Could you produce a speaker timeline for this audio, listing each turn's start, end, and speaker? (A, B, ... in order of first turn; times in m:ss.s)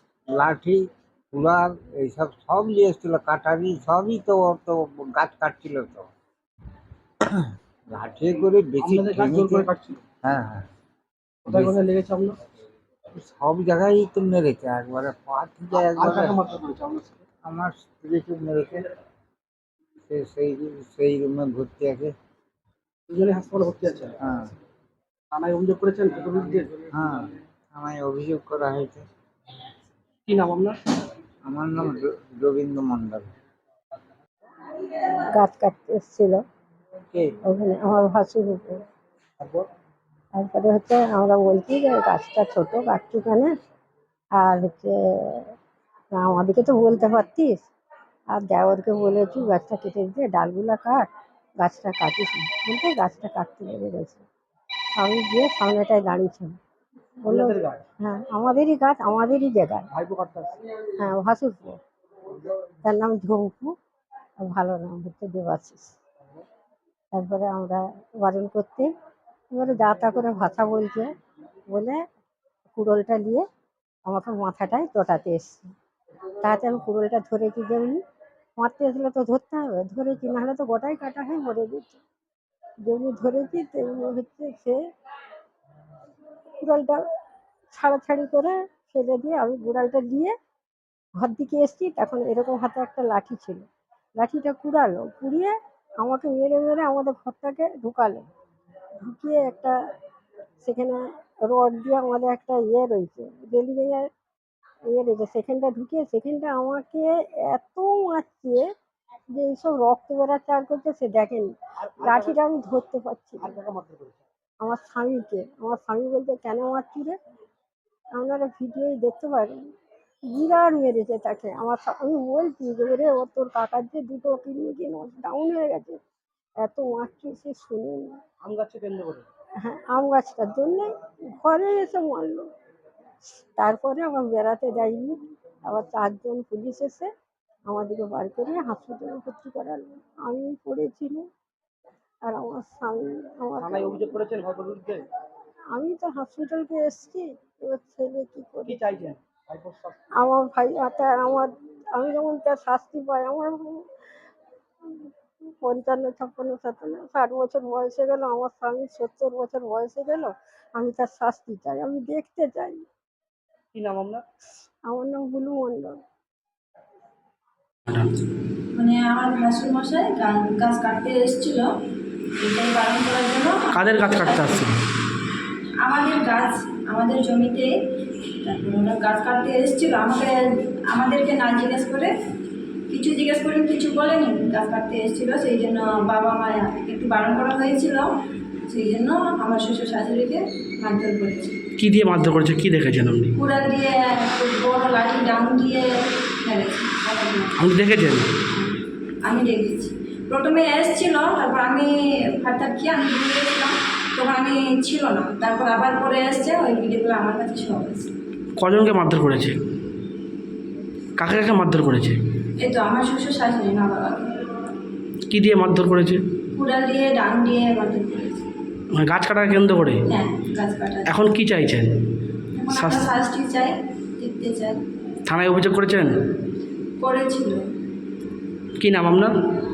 0:00.3-0:06.1 A
0:07.3-0:09.7 A
0:08.8-0:10.0 B
0:10.2-0:10.7 A
0:11.4-0:12.4 B
0:13.1-0:16.4 A
0:15.7-0:17.2 B
0:17.4-0:18.8 A
0:20.1-0:22.1 A
0:23.1-0:24.2 B
0:24.2-0:24.5 A
0:25.3-0:26.8 B
0:26.9-0:29.0 A
0:30.2-0:30.8 B
0:31.4-0:33.3 A
0:35.3-0:36.4 C
0:37.4-0:38.8 C
0:40.3-0:43.5 C
0:44.4-0:45.5 C
0:46.1-0:47.6 C
0:48.3-0:51.1 C
0:51.6-0:54.2 C
0:55.0-0:56.6 C
0:57.2-0:59.9 C
0:57.2-0:57.8 B
0:59.9-1:00.6 B
1:01.0-1:01.8 C
1:02.8-1:03.7 C
1:04.4-1:05.9 C
1:07.1-1:08.9 C
1:09.5-1:11.1 C
1:11.7-1:12.0 C
1:12.7-1:13.4 C
1:14.0-1:15.7 C
1:16.4-1:18.0 C
1:18.6-1:22.0 C
1:22.8-1:24.8 C
1:26.6-1:27.0 C
1:27.7-1:30.3 C
1:31.2-1:33.6 C
1:34.2-1:38.2 C
1:39.0-1:39.8 C
1:40.6-1:44.1 C
1:44.9-1:48.7 C
1:49.3-1:53.5 C
1:51.8-1:52.4 B
1:53.4-1:54.2 B
1:54.6-1:57.2 C
1:58.2-1:59.6 C
2:00.2-2:06.0 C
2:06.6-2:08.2 C
2:08.4-2:09.2 B
2:09.6-2:12.5 C
2:13.6-2:17.1 C
2:17.7-2:21.3 C
2:22.2-2:24.2 C
2:23.6-2:25.0 B
2:25.7-2:28.8 C
2:28.6-2:30.0 B
2:30.2-2:33.9 C
2:34.9-2:42.8 C
2:43.7-2:44.2 B
2:44.8-2:46.0 C
2:47.9-2:48.1 D
2:48.7-2:51.7 E
2:52.4-2:54.7 E
2:53.7-2:54.8 D
2:55.8-2:57.7 E
2:58.4-3:00.4 E
3:00.9-3:02.1 E
3:02.9-3:08.1 E
3:08.7-3:11.6 E
3:11.8-3:13.3 D
3:13.3-3:15.9 E
3:16.4-3:17.7 E
3:17.6-3:18.3 D
3:18.5-3:28.1 E
3:28.6-3:29.5 D
3:31.2-3:32.2 D
3:32.6-3:34.4 E
3:35.3-3:36.2 D
3:36.5-3:38.4 E
3:38.9-3:39.9 D
3:39.1-3:39.7 B
3:40.0-3:41.2 E
3:41.2-3:41.9 D
3:42.5-3:44.8 E
3:42.7-3:43.1 D
3:45.3-3:45.9 D
3:45.6-3:46.1 B
3:47.0-3:47.6 E
3:48.8-3:49.1 D
3:48.8-3:49.3 B